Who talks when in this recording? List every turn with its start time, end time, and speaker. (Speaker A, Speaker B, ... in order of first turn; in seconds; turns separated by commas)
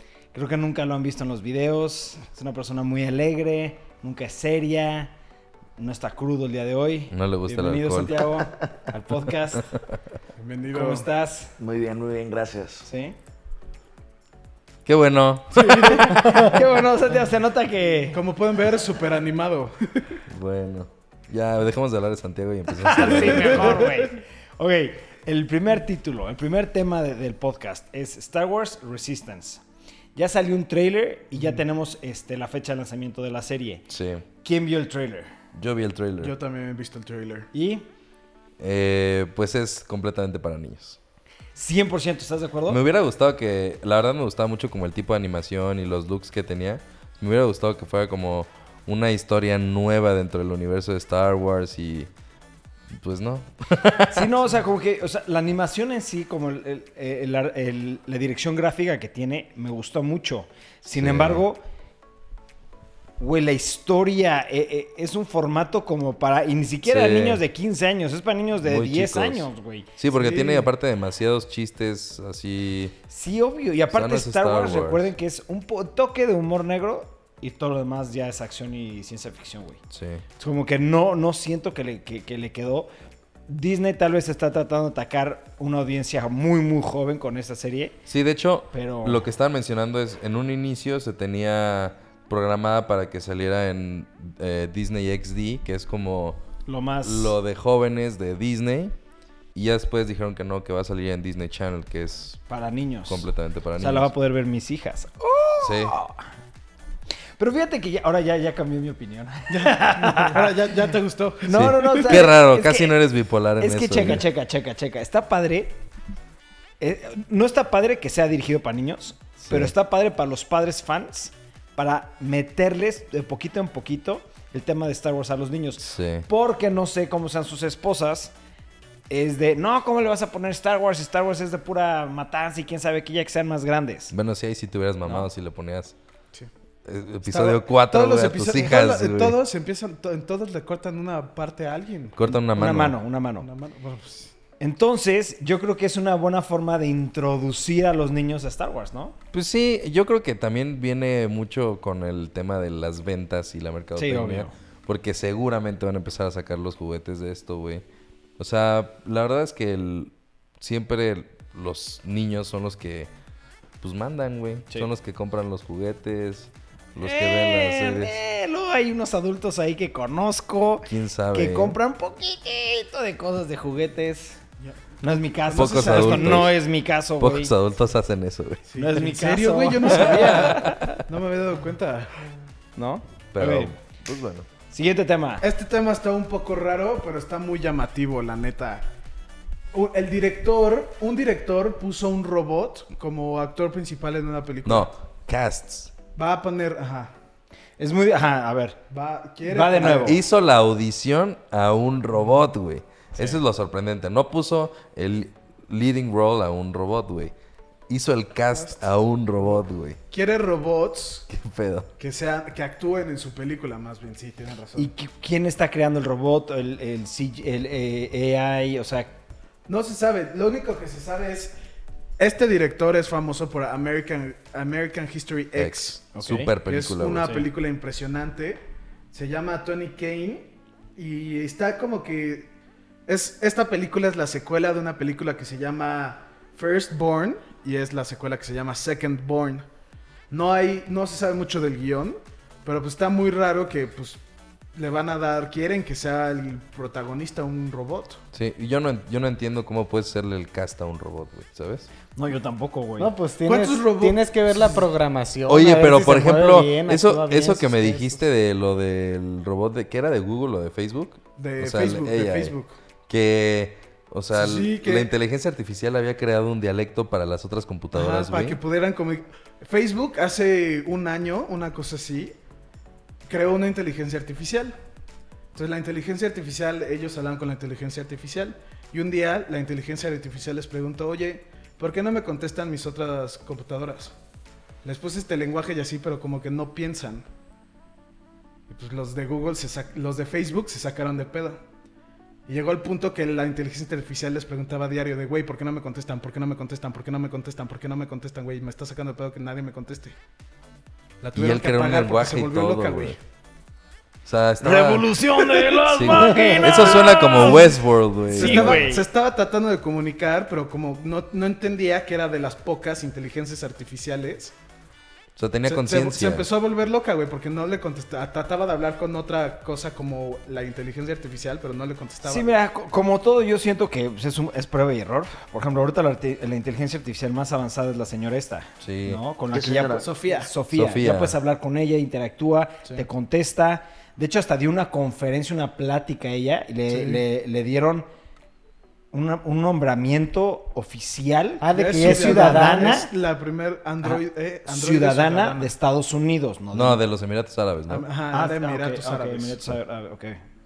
Speaker A: 0.3-5.1, Speaker A: 5.8-9.7, Speaker B: 7.1-8.3, Speaker C: 10.4-11.1, Speaker A: 10.7-11.5, Speaker D: 11.6-12.9, Speaker A: 12.9-13.2, Speaker B: 14.9-16.0, Speaker C: 15.5-16.6, Speaker A: 15.8-18.2, Speaker C: 18.1-20.2, Speaker B: 20.3-23.7, Speaker A: 22.8-29.6, Speaker C: 23.0-24.1, Speaker A: 30.1-33.8, Speaker B: 33.9-34.2, Speaker A: 34.4-35.3, Speaker B: 35.5-36.4, Speaker C: 36.2-37.5, Speaker A: 37.5-37.9, Speaker B: 38.6-41.0, Speaker A: 41.5-42.8, Speaker B: 42.7-52.1, Speaker B: 52.9-54.3, Speaker A: 54.1-61.6, Speaker B: 60.9-61.4, Speaker A: 63.2-70.0, Speaker B: 66.8-67.4, Speaker B: 68.6-73.0, Speaker C: 70.1-70.7, Speaker A: 73.1-79.8, Speaker B: 73.9-75.1, Speaker B: 79.9-80.2, Speaker A: 80.4-82.9, Speaker A: 83.5-88.0, Speaker B: 88.1-96.4, Speaker A: 88.7-89.2, Speaker A: 96.7-97.3, Speaker B: 97.0-98.9, Speaker B: 99.5-102.4, Speaker A: 102.5-103.3, Speaker B: 103.1-104.1, Speaker A: 103.8-106.3, Speaker B: 105.6-106.0, Speaker A: 107.4-110.5, Speaker C: 109.5-112.3, Speaker A: 111.5-113.0, Speaker B: 111.5-114.2, Speaker A: 113.6-115.8, Speaker A: 116.8-128.3, Speaker B: 119.4-119.7, Speaker B: 125.8-126.3, Speaker A: 129.1-134.1, Speaker B: 134.1-135.9, Speaker B: 136.9-139.4, Speaker C: 137.3-142.2, Speaker B: 142.2-143.0, Speaker A: 142.3-143.5, Speaker C: 143.4-144.3, Speaker A: 144.6-149.2, Speaker B: 149.3-157.8, Speaker A: 154.0-154.5, Speaker B: 158.4-163.1, Speaker B: 163.8-168.2, Speaker A: 167.0-174.4, Speaker B: 170.9-171.8, Speaker A: 175.0-177.5, Speaker C: 175.5-176.5, Speaker B: 175.5-176.6, Speaker B: 177.2-178.6, Speaker C: 178.7-182.2, Speaker A: 178.8-181.0, Speaker B: 180.1-180.6, Speaker A: 182.8-183.7, Speaker B: 183.3-184.5, Speaker A: 184.7-185.5, Speaker C: 185.4-188.9, Speaker C: 189.7-194.9, Speaker B: 194.7-195.9, Speaker C: 196.2-197.1, Speaker A: 197.8-198.8, Speaker C: 198.9-200.2, Speaker A: 199.4-200.2, Speaker B: 199.8-207.3, Speaker C: 203.2-203.4, Speaker B: 207.9-210.0, Speaker C: 208.5-208.9, Speaker C: 210.1-211.3, Speaker B: 211.3-211.9, Speaker C: 212.0-214.9, Speaker A: 214.8-219.1, Speaker C: 219.7-221.6, Speaker C: 222.2-226.0, Speaker B: 225.6-227.5, Speaker A: 226.2-226.5, Speaker C: 226.7-232.5, Speaker C: 233.1-239.7, Speaker C: 240.3-244.2, Speaker C: 244.8-248.2, Speaker B: 248.3-251.9, Speaker A: 252.2-253.2, Speaker E: 253.0-258.2, Speaker C: 253.4-254.3, Speaker B: 255.5-262.6, Speaker C: 261.4-262.7, Speaker B: 263.1-268.6, Speaker C: 264.3-265.1, Speaker C: 267.9-272.4, Speaker C: 273.3-274.8, Speaker C: 275.6-284.1, Speaker C: 284.8-287.2, Speaker C: 288.7-291.6, Speaker C: 292.5-300.2, Speaker C: 301.2-303.2, Speaker B: 301.4-303.2, Speaker B: 304.2-305.1, Speaker A: 304.6-307.8, Speaker C: 305.4-314.5, Speaker B: 305.9-308.9, Speaker A: 308.3-309.1, Speaker B: 315.4-316.5, Speaker C: 315.7-322.5, Speaker A: 322.2-338.1, Speaker B: 328.8-329.2, Speaker D: 329.5-330.1, Speaker C: 329.9-330.5, Speaker B: 330.7-331.4, Speaker C: 336.9-337.2, Speaker A: 339.1-343.1, Speaker E: 341.6-343.0, Speaker C: 341.7-345.7, Speaker A: 344.0-347.0, Speaker B: 346.7-348.1, Speaker C: 347.9-349.6, Speaker A: 348.3-350.4